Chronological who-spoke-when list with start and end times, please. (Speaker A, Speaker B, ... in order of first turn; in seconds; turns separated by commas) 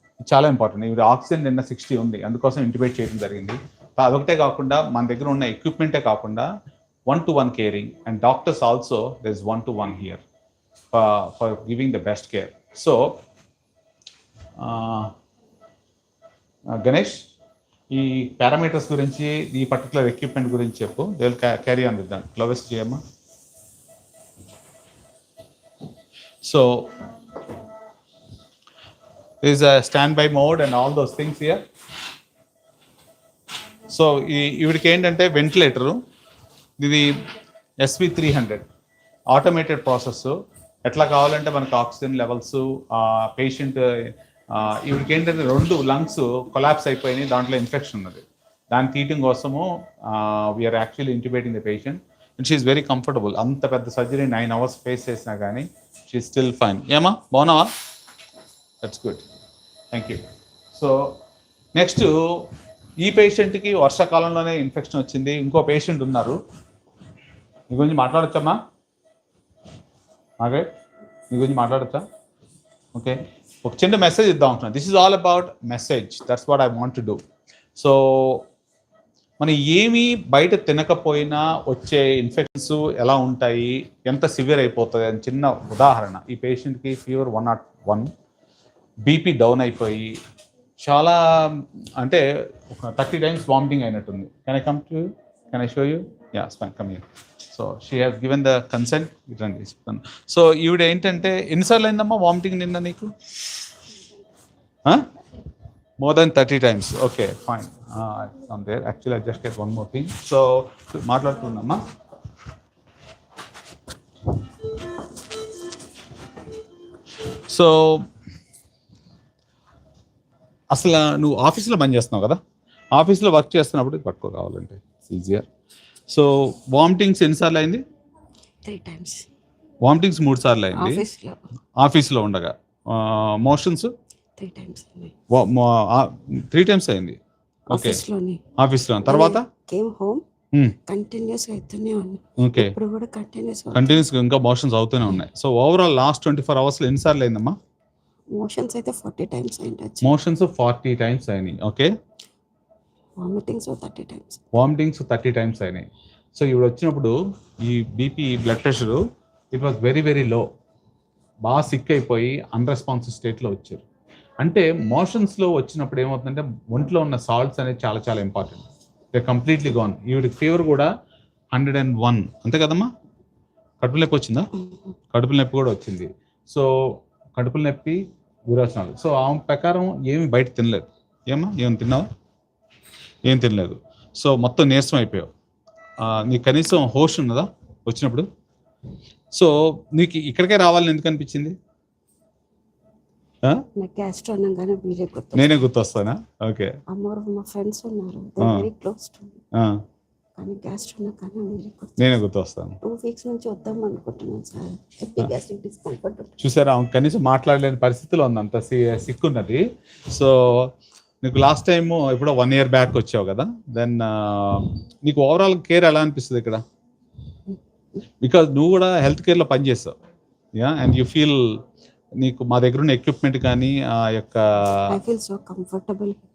Speaker A: 0.2-6.5, Speaker A: 7.1-10.2, Speaker A: 10.9-13.2, Speaker A: 14.6-15.1, Speaker A: 16.8-17.3, Speaker A: 17.9-23.0, Speaker A: 26.4-26.9, Speaker A: 29.4-31.6, Speaker A: 33.9-36.0, Speaker A: 36.8-37.2, Speaker A: 37.8-38.6, Speaker A: 39.3-40.4, Speaker A: 40.9-43.9, Speaker A: 44.5-57.7, Speaker A: 58.8-59.2, Speaker A: 59.9-60.2, Speaker A: 60.7-61.2, Speaker A: 61.8-62.5, Speaker A: 63.0-66.4, Speaker A: 67.7-68.6, Speaker A: 70.4-70.7, Speaker A: 71.3-72.0, Speaker A: 73.0-77.2, Speaker A: 77.8-78.5, Speaker A: 79.4-88.1, Speaker A: 89.1-90.2, Speaker A: 90.8-103.1, Speaker A: 106.0-111.8, Speaker A: 117.5-118.1, Speaker A: 120.7-122.4, Speaker A: 123.0-125.5, Speaker A: 126.1-127.8, Speaker B: 128.7-129.3, Speaker A: 129.8-131.0, Speaker B: 130.7-131.4, Speaker A: 131.8-133.9, Speaker B: 134.4-135.1, Speaker A: 135.3-137.2, Speaker B: 137.7-138.4, Speaker A: 137.7-138.0, Speaker A: 138.6-139.4, Speaker B: 139.1-140.2, Speaker A: 140.5-140.8, Speaker B: 140.9-144.0, Speaker A: 142.4-142.7, Speaker A: 143.7-147.6, Speaker B: 148.3-150.0, Speaker A: 150.0-151.9, Speaker B: 153.2-154.4, Speaker A: 154.5-159.0, Speaker A: 159.5-160.5, Speaker A: 161.5-163.8, Speaker A: 164.4-170.9, Speaker A: 171.5-172.9, Speaker A: 173.8-174.5, Speaker A: 175.1-176.7, Speaker A: 177.4-182.1, Speaker A: 183.3-185.3, Speaker A: 186.0-188.3, Speaker A: 189.3-191.6, Speaker B: 193.8-195.7, Speaker A: 195.3-196.7, Speaker B: 196.9-199.4, Speaker B: 200.4-202.1, Speaker A: 202.0-202.8, Speaker B: 202.8-206.3, Speaker A: 206.4-210.7, Speaker A: 211.2-216.6, Speaker A: 218.2-219.9, Speaker A: 220.6-221.6, Speaker A: 222.2-224.8, Speaker B: 224.9-226.2